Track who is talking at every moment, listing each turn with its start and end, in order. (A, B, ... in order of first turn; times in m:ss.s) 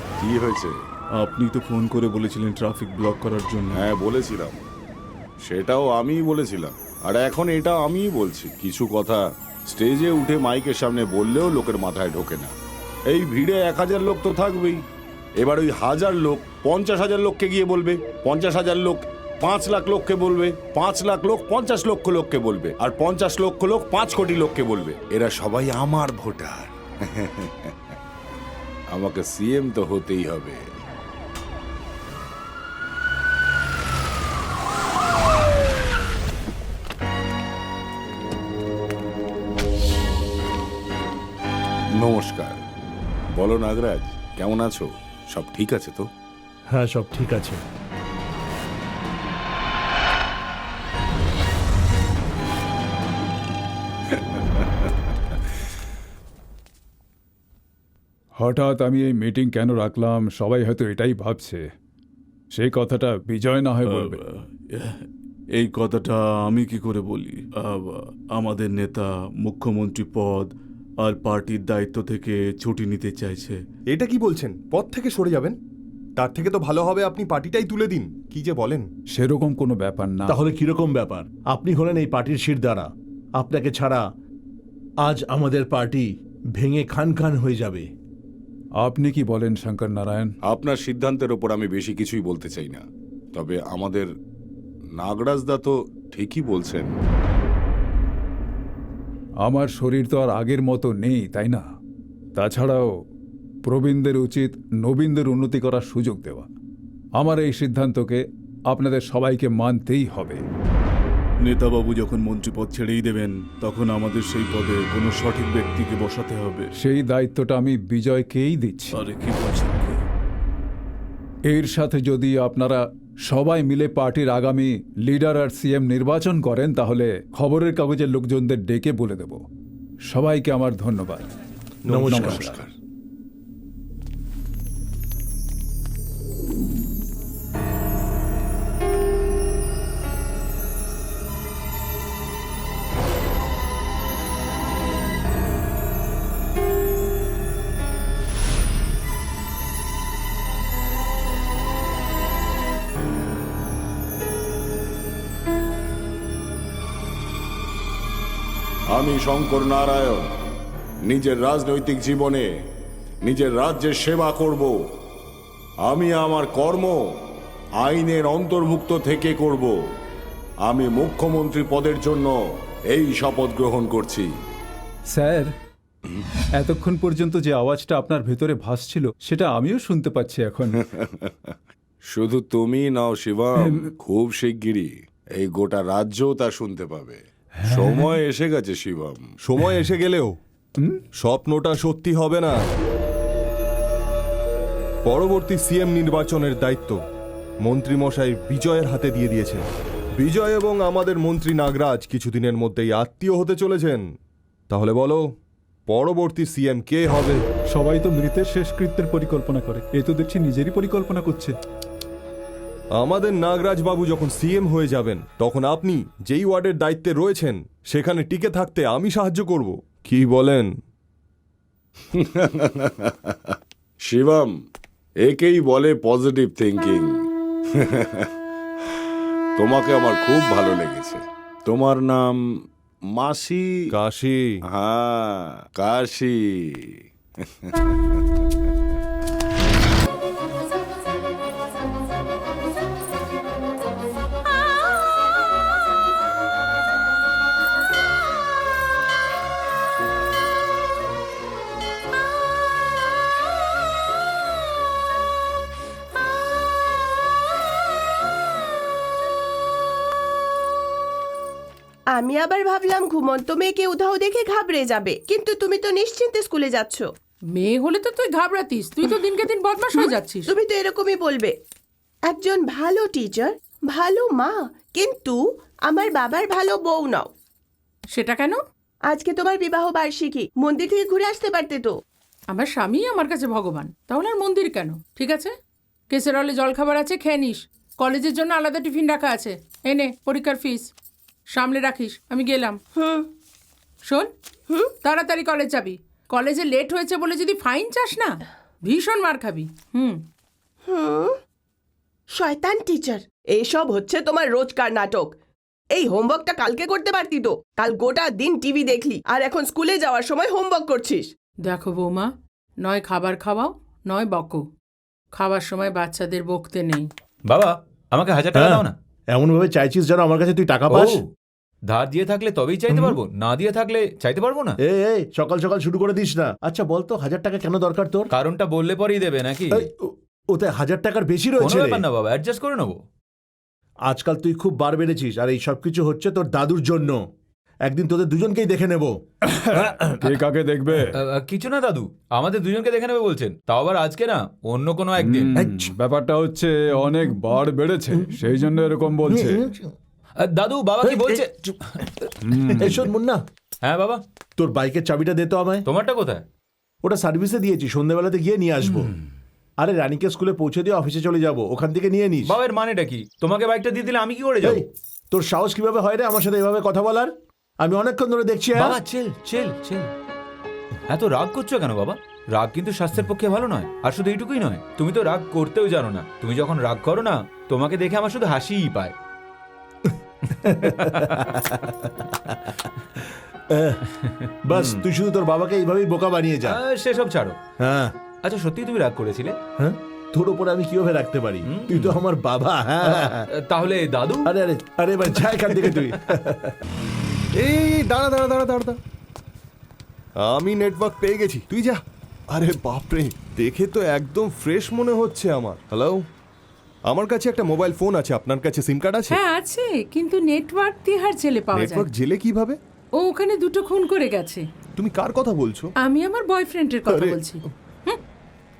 0:00.2-0:00.8 A
0:01.1-0:03.8 B
0:03.7-0:04.6 A
0:05.4-0:12.5 A
0:13.1-0:14.8 A
0:15.4-0:27.7 A
0:28.9-0:30.6 A
0:42.0-0:42.5 A
0:43.3-0:46.1 A
0:46.7-0:47.6 C
0:54.1-0:54.6 A
0:58.4-1:01.6 D
1:02.5-1:04.1 D
1:03.8-1:13.6 B
1:13.9-1:15.6 E
1:16.2-1:18.9 E
1:19.1-1:20.4 D
1:20.2-1:24.0 C
1:25.0-1:26.0 C
1:26.6-1:27.9 C
1:28.8-1:30.3 D
1:30.5-1:32.8 A
1:33.3-1:34.1 A
1:35.0-1:37.0 A
1:39.4-1:41.6 D
1:42.4-1:42.9 D
1:43.6-1:46.5 D
1:47.2-1:50.4 D
1:51.4-1:56.7 B
1:56.8-1:59.0 D
1:58.9-2:00.0 B
2:01.5-2:09.4 D
2:10.1-2:11.2 D
2:11.9-2:12.2 E
2:11.9-2:12.4 C
2:12.1-2:12.5 D
2:12.3-2:12.7 A
2:38.9-2:40.3 A
2:41.0-2:42.5 A
2:43.2-2:44.7 A
2:45.8-2:47.0 A
2:47.8-2:49.7 A
2:50.6-2:52.4 A
2:52.9-2:54.3 A
2:55.1-2:55.5 D
2:56.6-3:00.8 D
3:00.8-3:01.5 A
3:02.1-3:09.2 A
3:03.6-3:03.9 D
3:07.7-3:08.1 D
3:09.4-3:10.3 E
3:11.2-3:12.6 E
3:15.0-3:17.0 E
3:17.6-3:19.6 E
3:20.2-3:24.0 E
3:24.7-3:25.2 E
3:25.9-3:27.4 E
3:27.7-3:31.6 D
3:33.0-3:40.7 E
3:42.1-3:44.5 A
3:45.2-3:47.2 A
3:47.7-3:48.3 A
3:49.6-3:52.4 A
3:53.1-3:53.9 A
3:53.9-3:54.6 E
3:54.7-3:58.4 A
4:22.1-4:27.1 F
4:27.6-4:30.5 G
4:29.9-4:31.5 F
4:32.2-4:37.3 F
4:38.1-4:38.6 G
4:39.1-4:42.0 F
4:42.5-4:45.5 G
4:46.1-4:50.9 G
4:51.5-4:52.8 G
4:53.0-4:53.3 F
4:55.0-5:00.2 G
5:00.9-5:01.4 F
5:02.3-5:05.3 F
5:05.9-5:11.3 F
5:11.6-5:12.3 G
5:12.8-5:14.6 G
5:15.3-5:17.1 G
5:17.5-5:18.9 H
5:18.5-5:21.2 C
5:20.9-5:21.2 H
5:21.9-5:24.7 H
5:22.9-5:23.2 C
5:24.8-5:28.3 C
5:28.3-5:29.9 H
5:29.7-5:32.0 C
5:31.6-5:33.0 H
5:34.1-5:37.2 C
5:37.8-5:39.2 C
5:39.5-5:41.2 D
5:39.8-5:40.2 C
5:41.2-5:45.5 H
5:45.2-5:49.6 D
5:45.6-5:45.9 C
5:49.2-5:49.9 C
5:50.4-5:52.1 H
5:51.0-5:51.7 C
5:52.4-5:53.0 D
5:52.6-5:53.4 C
5:53.8-5:54.2 H
5:54.6-5:55.8 C
5:55.8-5:56.4 H
5:57.0-5:59.1 C
5:59.8-6:02.6 C
6:02.4-6:04.8 H
6:04.6-6:09.0 C
6:08.7-6:10.1 H
6:11.1-6:19.1 H
6:20.6-6:21.5 H
6:20.6-6:22.7 C
6:23.7-6:24.1 C
6:24.2-6:25.0 H
6:24.6-6:26.8 C
6:26.6-6:27.6 H
6:27.8-6:28.1 C
6:28.4-6:29.6 H
6:29.8-6:33.4 C
6:31.7-6:32.2 H
6:33.1-6:34.5 H
6:34.4-6:36.8 C
6:37.6-6:39.0 E
6:40.4-6:42.0 E
6:42.5-6:46.2 E
6:47.1-6:49.4 E
6:49.3-6:52.1 G
6:51.7-6:52.8 E
6:53.2-6:54.6 G
6:55.0-6:55.9 E
6:56.0-6:58.2 G
6:57.1-6:57.4 E